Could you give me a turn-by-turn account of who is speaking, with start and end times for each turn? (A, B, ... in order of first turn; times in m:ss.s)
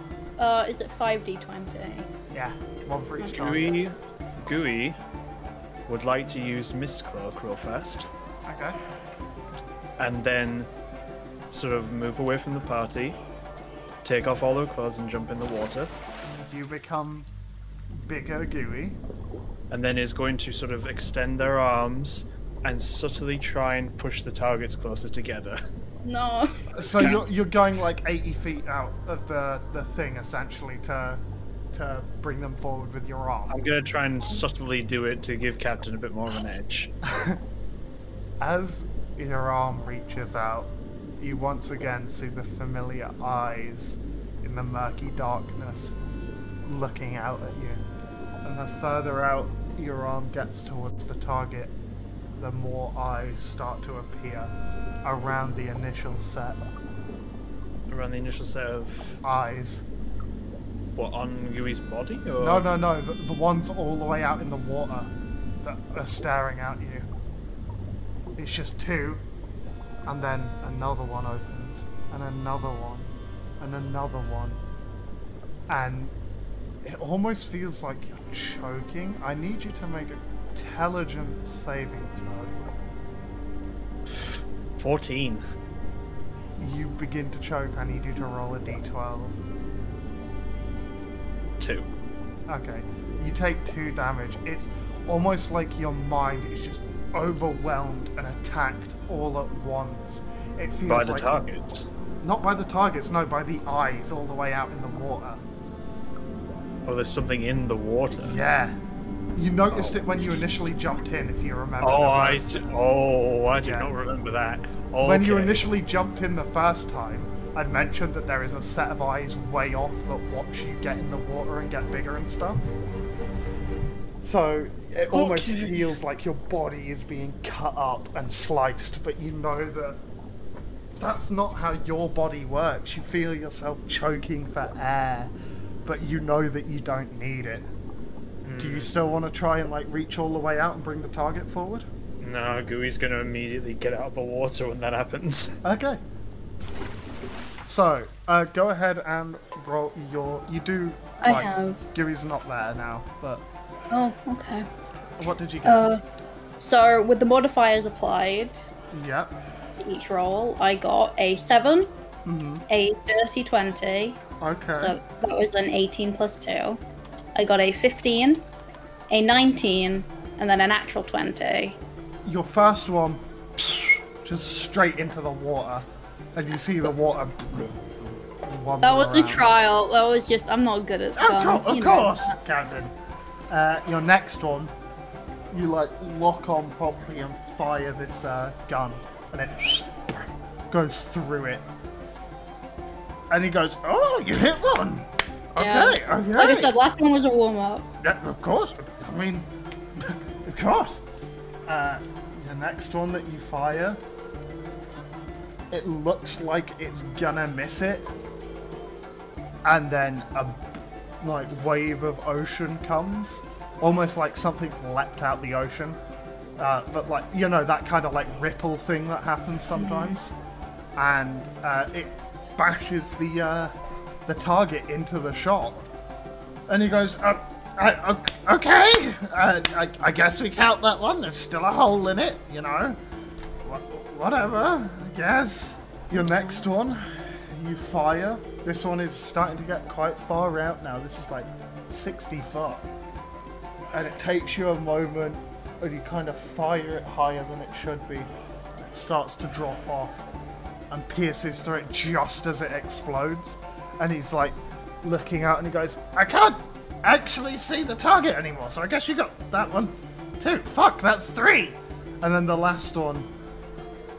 0:00.4-0:02.1 A
0:02.3-0:03.8 B
0:03.4-0:05.0 C
0:05.9-0:08.1 C
0:08.5-0:08.8 B
0:10.0-0:10.7 C
0:11.5-0:13.2 C
0:14.0-0:15.9 C
0:16.4-0:17.3 B
0:17.9-0:19.0 B
0:19.7-0:25.6 C
0:26.0-0:27.2 A
0:26.8-0:33.6 B
0:26.9-0:27.2 C
0:33.5-0:36.9 C
0:37.0-0:37.4 B
0:38.4-0:46.0 B
0:46.6-0:47.8 B
0:48.4-0:51.7 B
0:52.4-0:54.5 B
0:55.0-0:56.6 B
0:57.9-0:59.2 C
0:59.2-0:59.8 B
1:01.0-1:02.7 C
1:02.4-1:05.1 B
1:05.6-1:07.1 B
1:08.4-1:09.2 B
1:10.1-1:14.6 B
1:15.7-1:16.1 B
1:16.8-1:22.5 B
1:24.2-1:25.4 C
1:26.6-1:29.4 B
1:31.6-1:31.9 C
1:32.5-1:41.4 B
1:40.9-1:41.9 C
1:42.2-1:45.4 B
1:46.8-1:48.4 C
1:48.2-1:48.8 B
1:49.4-1:52.8 B
1:49.7-1:50.5 C
1:51.8-1:55.7 C
1:53.6-1:53.9 B
1:55.0-2:02.7 B
2:04.2-2:10.0 B
2:05.1-2:05.9 C
2:11.0-2:15.3 B
2:15.8-2:17.7 B
2:18.4-2:19.0 C
2:18.6-2:21.9 B
2:22.2-2:25.6 C
2:25.6-2:26.0 B
2:27.6-2:33.4 B
2:31.2-2:31.8 A
2:33.9-2:34.7 A
2:35.2-2:35.9 B
2:35.6-2:36.0 A
2:36.6-2:38.7 A
2:38.9-2:39.4 B
2:39.8-2:41.9 A
2:42.2-2:42.6 B
2:42.7-2:44.2 A
2:44.4-2:45.0 B
2:44.8-2:46.8 A
2:47.4-2:48.4 A
2:49.1-2:51.8 A
2:52.2-2:57.8 B
2:58.4-2:59.5 B
2:58.8-3:02.4 A
3:01.2-3:02.9 B
3:03.5-3:04.7 B
3:05.5-3:11.6 B
3:13.3-3:16.7 B
3:15.6-3:17.9 A
3:18.0-3:21.0 B
3:21.7-3:24.0 B
3:25.7-3:28.1 B
3:29.6-3:36.0 B
3:36.6-3:40.3 B
3:39.8-3:40.2 A
3:41.0-3:43.7 B
3:44.3-3:45.9 B
3:46.7-3:53.0 B
3:53.6-4:02.9 B
3:56.2-3:56.7 A
4:03.9-4:10.2 B
4:10.9-4:23.3 B